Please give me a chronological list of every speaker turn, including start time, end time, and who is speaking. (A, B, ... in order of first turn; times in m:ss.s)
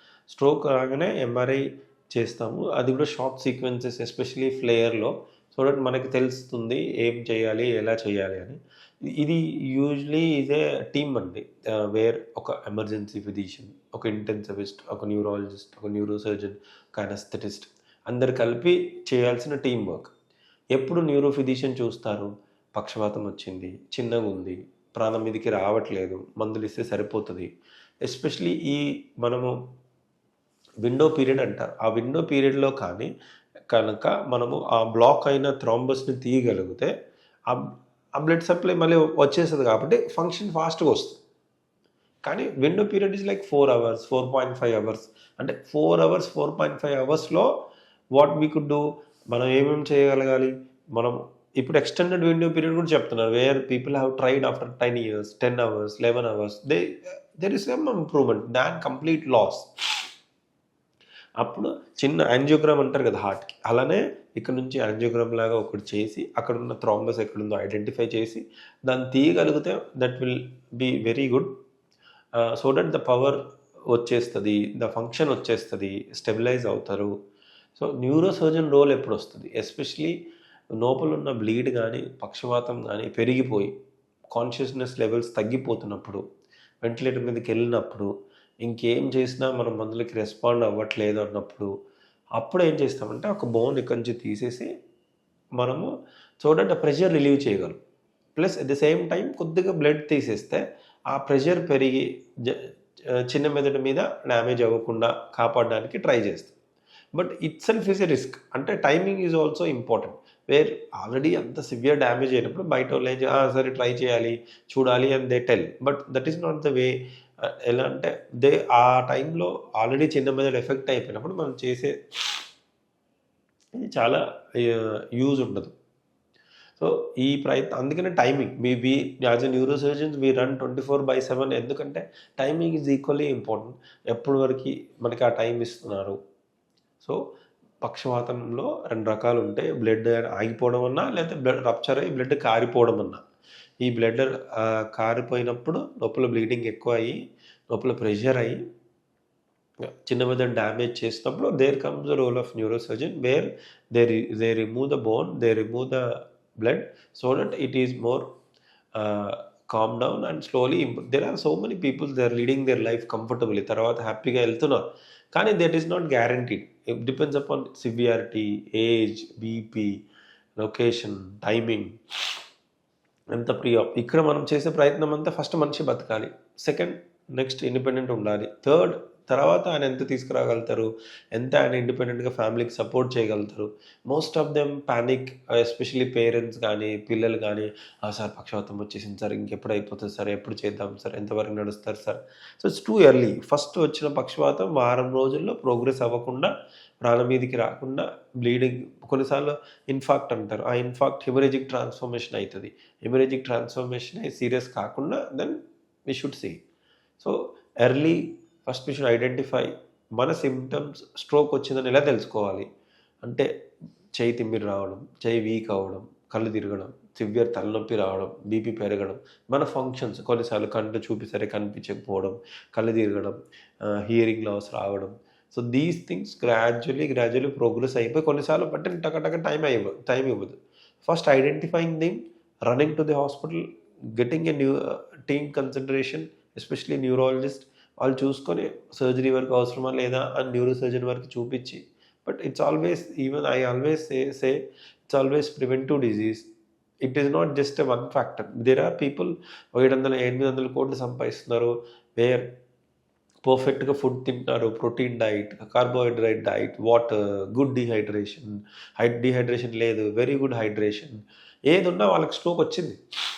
0:00.3-0:20.1 A
0:20.7-0:27.5 A
0:28.0-0:29.5 A
0:30.8-0:33.1 A
0:33.7-0:36.9 A
0:37.5-0:41.2 A
0:42.2-0:47.5 A
0:48.1-0:59.7 A
1:01.4-1:11.5 A
1:12.4-1:17.1 A
1:17.8-1:20.2 A
1:20.7-1:23.7 A
1:24.3-1:26.2 A
1:26.8-1:28.1 A
1:28.6-1:31.7 A
1:32.4-1:34.7 A
1:35.6-1:37.8 A
1:38.4-1:46.5 A
1:47.1-2:02.4 A
2:03.8-2:05.7 A
2:06.8-2:16.2 A
2:17.8-2:23.2 A
2:23.8-2:28.6 A
2:29.9-2:38.3 A
2:38.9-2:50.0 A
2:50.6-2:52.0 A
2:53.3-3:26.6 A
3:27.2-3:32.6 A
3:33.2-3:33.5 A
3:34.1-4:06.5 A
4:07.0-4:12.5 A
4:13.4-4:23.0 A